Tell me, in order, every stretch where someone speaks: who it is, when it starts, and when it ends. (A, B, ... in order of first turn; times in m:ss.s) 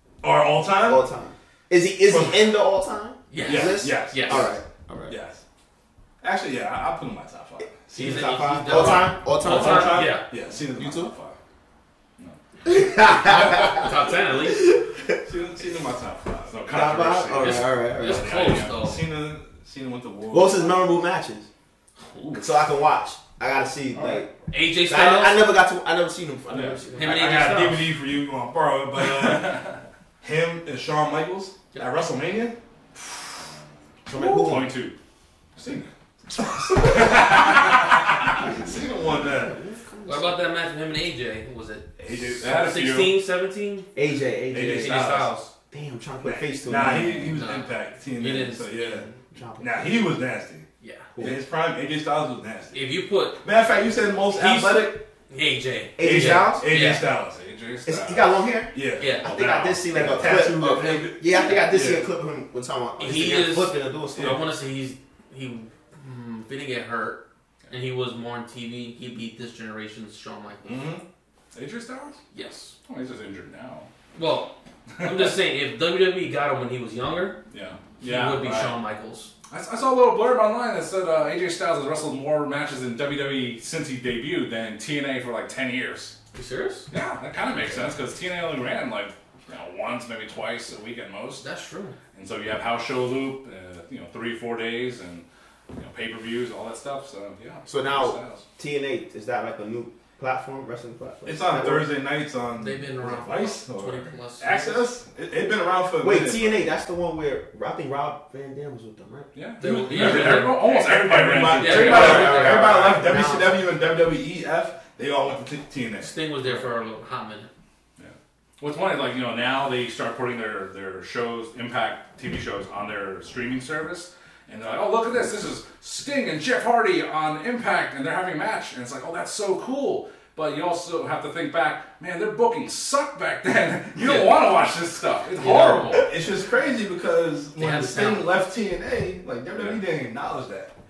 0:00.2-0:01.0 A
0:00.8-0:05.1 B
0:02.0-0:02.5 A
0:03.3-0:04.5 C
0:03.4-0:05.4 A
0:06.2-0:11.4 A
0:07.9-0:10.2 B
0:08.0-0:10.2 C
0:10.7-0:11.1 B
0:12.6-0:15.2 B
0:13.2-0:14.7 C
0:15.2-0:16.6 A
0:16.5-0:18.8 D
0:16.7-0:18.4 B
0:17.4-0:19.0 C
0:18.1-0:20.9 A
0:20.3-0:21.5 B
0:22.1-0:22.4 C
0:22.3-0:24.3 B
0:24.5-0:25.5 C
0:24.8-0:27.5 B
0:26.5-0:26.8 D
0:26.9-0:27.9 C
0:27.0-0:29.6 A
0:29.2-0:29.7 D
0:30.2-0:32.6 A
0:34.0-0:34.7 B
0:34.1-0:34.9 D
0:35.6-0:39.6 A
0:36.8-0:37.2 B
0:36.8-0:38.0 D
0:38.2-0:40.4 B
0:40.0-0:43.9 C
0:42.0-0:42.6 A
0:42.4-0:43.1 D
0:43.9-0:45.1 B
0:44.5-0:45.3 A
0:44.5-0:45.5 C
0:45.7-0:47.4 B
0:46.2-0:49.0 A
0:47.2-0:48.9 C
0:48.8-0:50.0 B
0:49.6-0:50.6 A
0:50.8-0:51.1 C
0:51.1-0:51.4 B
0:51.2-0:52.8 A
0:52.7-0:53.4 C
0:53.4-0:55.0 A
0:54.3-0:57.0 C
0:56.0-0:56.7 B
0:56.0-0:57.4 A
0:57.3-0:58.4 D
0:57.8-1:04.4 B
0:58.7-0:59.1 A
0:59.0-0:59.3 C
0:59.2-1:00.3 D
0:59.9-1:02.0 A
1:03.0-1:10.8 C
1:10.6-1:11.0 A
1:11.5-1:12.2 D
1:12.3-1:12.7 C
1:12.8-1:13.9 D
1:14.1-1:17.4 C
1:15.0-1:15.3 D
1:17.5-1:18.7 D
1:18.0-1:19.3 C
1:19.5-1:26.2 D
1:26.3-1:26.9 C
1:26.9-1:31.4 D
1:31.4-1:32.0 C
1:32.1-1:38.4 D
1:37.6-1:41.8 B
1:41.2-1:46.6 A
1:42.6-1:44.8 C
1:46.0-1:49.3 B
1:49.3-1:52.3 D
1:49.6-1:50.6 C
1:49.6-1:56.1 A
1:51.6-1:52.9 C
1:51.8-1:53.6 B
1:56.0-1:57.5 C
1:58.0-2:16.1 D
2:15.4-2:16.1 C
2:16.0-2:20.7 A
2:17.6-2:18.3 C
2:19.5-2:19.8 D